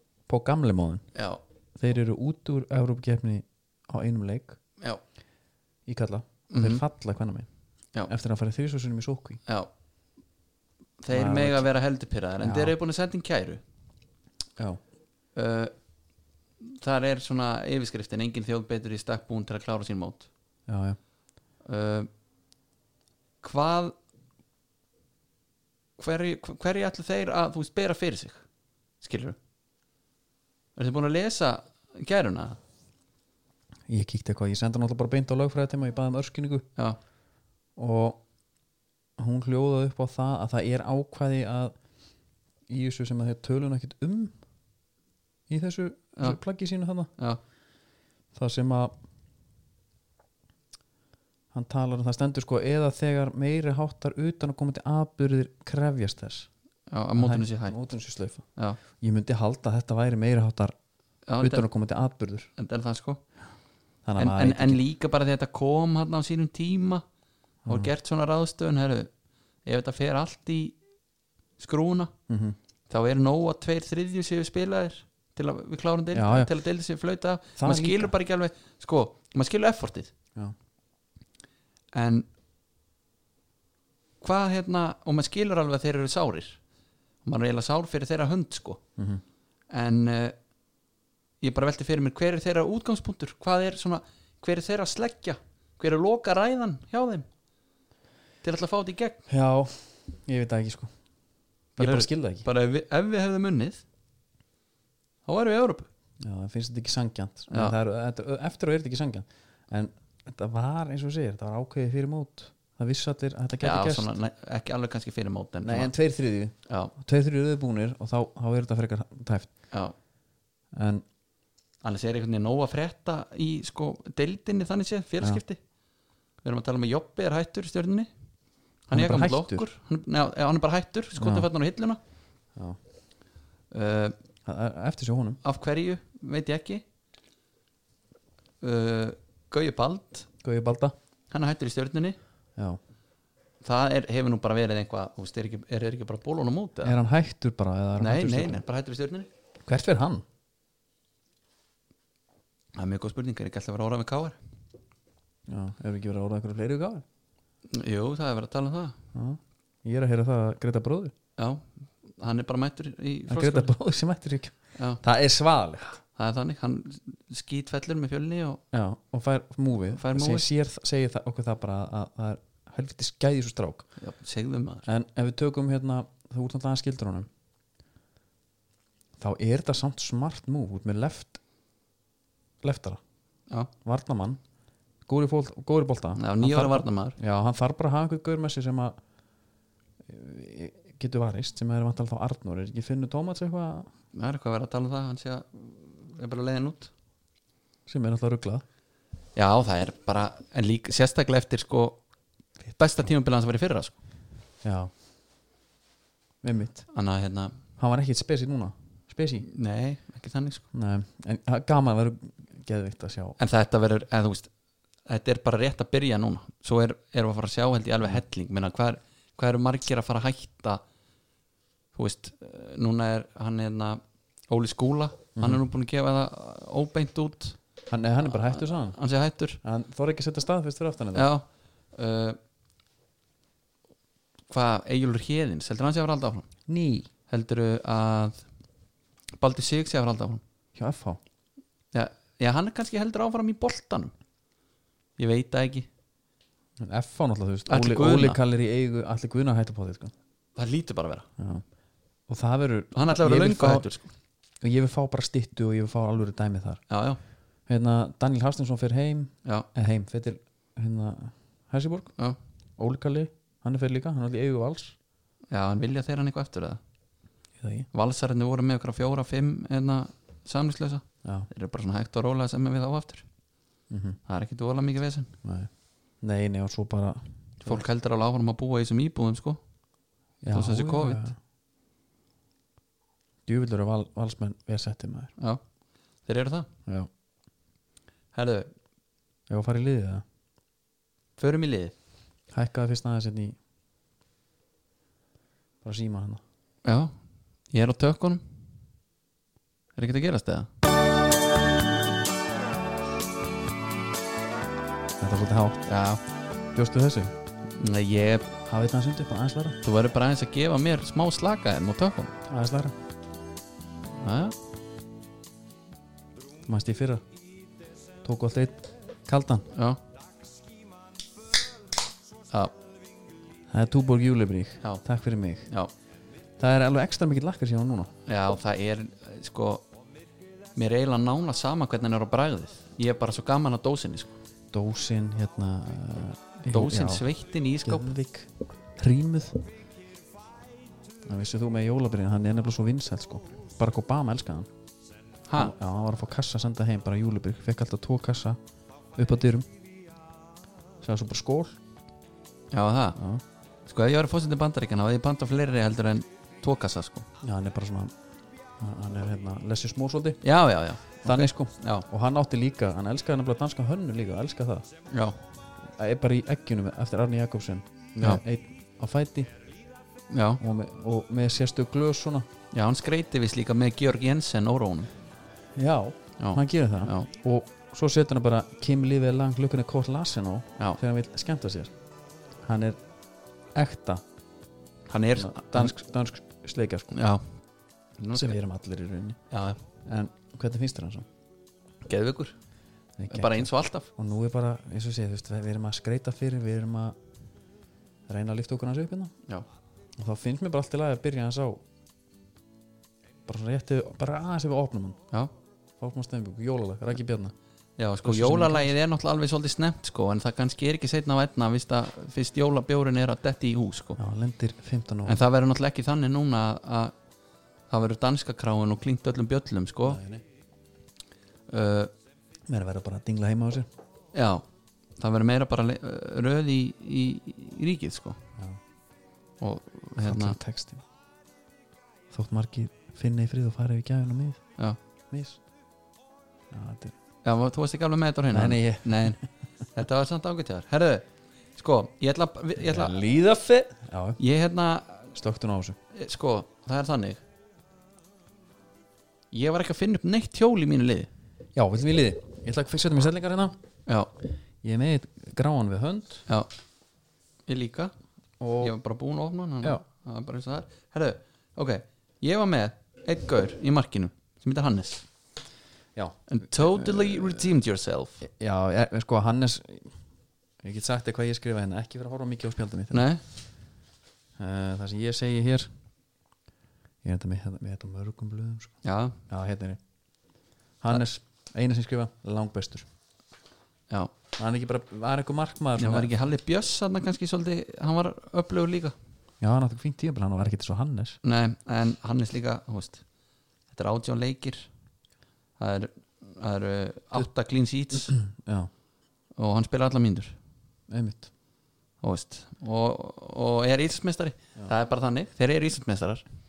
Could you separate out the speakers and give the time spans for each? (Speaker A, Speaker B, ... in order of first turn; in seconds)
Speaker A: 0.3-1.0, 1.8-4.6, 5.9-7.5, 8.1-9.4, 11.1-11.7, 12.4-12.8, 20.7-21.0, 33.9-36.7, 37.8-38.2, 39.2-41.8, 42.7-44.3, 45.5-47.1, 48.3-48.9, 51.5-56.5, 57.2-60.7, 61.4-62.5, 64.0-64.8, 67.7-67.9, 72.3-72.6, 76.1-76.5, 77.6-78.1, 89.0-89.2, 99.3-100.9, 101.8-102.5, 106.2-114.1, 115.6-119.5, 120.7-121.0, 128.9-129.7, 131.2-131.5, 134.4-135.4, 140.4-140.9, 146.8-148.6, 149.7-150.2, 155.5-157.1, 159.1-161.1, 163.3-165.9, 168.7-173.9, 174.9-177.3, 179.2-181.4, 182.6-183.0, 183.8-184.4, 185.1-189.0, 190.1-193.9, 197.9-198.6, 204.6-204.9, 206.4-206.9, 207.8-209.5, 210.7-213.4, 227.9-229.0, 229.6-231.3, 236.7-237.1, 240.8-241.2, 246.8-250.1, 251.4-251.6, 252.3-253.9, 254.6-256.8, 257.7-262.1, 262.8-265.0, 267.6-267.9, 273.9-274.2, 275.4-275.7, 276.2-277.9, 280.4-281.4, 283.5-285.3, 289.5-290.2, 292.5-293.6, 295.8-296.4, 305.2-305.9, 306.7-307.3, 308.7-309.8, 312.5-312.9, 316.7-317.2, 318.2-319.7, 323.7-325.7, 326.6-328.1, 334.7-337.3, 337.8-339.7, 341.3-344.7, 345.6-348.6, 349.1-349.7, 351.0-351.8, 353.2-353.4, 357.4-358.1, 358.8-360.4, 361.2-364.9, 366.0-369.5, 370.6-372.5, 375.8-381.9, 382.6-383.0, 383.8-384.2, 385.4-387.2, 388.3-389.4, 390.1-391.3, 393.2-397.1, 398.3-399.3, 400.2-401.8, 403.5-405.2, 406.0-407.6, 408.2-408.9, 414.2-415.4, 420.1-420.4, 422.7-423.9, 430.2-431.0, 432.3-434.6, 435.3-435.6, 436.7-437.1, 438.5-439.4, 442.8-444.4, 445.3-446.0, 451.8-453.8, 454.8-456.4, 458.6-458.9, 466.2-467.7, 468.4-470.1, 470.8-473.3, 474.6-475.9, 477.2-479.0, 479.5-480.0, 481.0-483.1, 484.6-486.3, 489.6-491.4, 498.3-498.9, 501.1-501.5
Speaker B: 1.1-1.4, 6.5-6.8, 11.0-13.6, 15.3-15.7, 16.6-20.3, 21.6-22.1, 23.4-23.9, 26.0-28.4, 29.0-29.4, 30.8-32.6, 56.9-57.8, 61.3-61.7, 62.6-63.2, 64.2-67.0, 67.7-69.1, 69.7-70.8, 71.6-72.1, 72.9-80.1, 81.9-82.3, 84.2-86.6, 87.2-88.8, 89.7-90.3, 91.4-97.3, 98.4-99.2, 101.8-103.8, 105.3-105.9, 107.5-107.8, 113.6-115.9, 121.8-125.6, 126.4-128.1, 128.9-132.0, 133.7-134.2, 135.4-136.8, 138.6-140.3, 141.3-142.2, 143.6-147.0, 148.0-149.3, 152.8-154.4, 157.7-159.0, 161.4-163.7, 166.2-168.6, 169.9-170.5, 174.0-174.8, 186.2-187.2, 194.1-196.9, 199.4-202.0, 202.7-204.0, 206.9-207.6, 209.4-210.7, 213.4-214.5, 215.1-220.8, 221.9-227.6, 228.3-229.6, 231.1-232.4, 234.5-236.5, 237.3-238.4, 239.4-240.4, 241.9-244.1, 245.2-245.9, 247.7-248.4, 250.6-251.3, 252.9-254.1, 256.9-257.2, 265.5-266.8, 267.9-273.2, 274.3-275.3, 277.6-279.6, 280.5-281.2, 286.2-286.7, 288.3-288.7, 291.4-291.9, 296.9-297.1, 297.7-298.4, 300.0-300.7, 305.9-306.2, 307.8-308.5, 309.8-312.4, 314.2-314.6, 319.7-320.0, 328.3-329.9, 330.8-334.4, 336.7-338.1, 345.5-345.7, 352.7-353.2, 353.9-357.3, 360.4-362.1, 365.1-365.4, 370.3-370.6, 372.7-375.1, 376.4-377.3, 385.1-385.9, 387.1-387.4, 388.2-388.6, 389.5-389.8, 392.1-392.6, 393.3-394.1, 408.0-414.2, 415.2-417.1, 417.9-420.2, 421.7-422.1, 424.3-424.6, 425.2-428.4, 429.6-430.6, 437.4-439.4, 439.9-441.3, 441.8-443.2, 444.4-445.3, 446.1-447.4, 449.5-451.3, 454.1-454.3, 457.7-458.1, 458.8-465.2, 466.5-468.4, 473.1-473.4, 479.0-479.4, 486.0-489.1, 491.4-493.2, 493.9-494.9, 495.8-498.4, 499.6-500.6, 502.2-506.4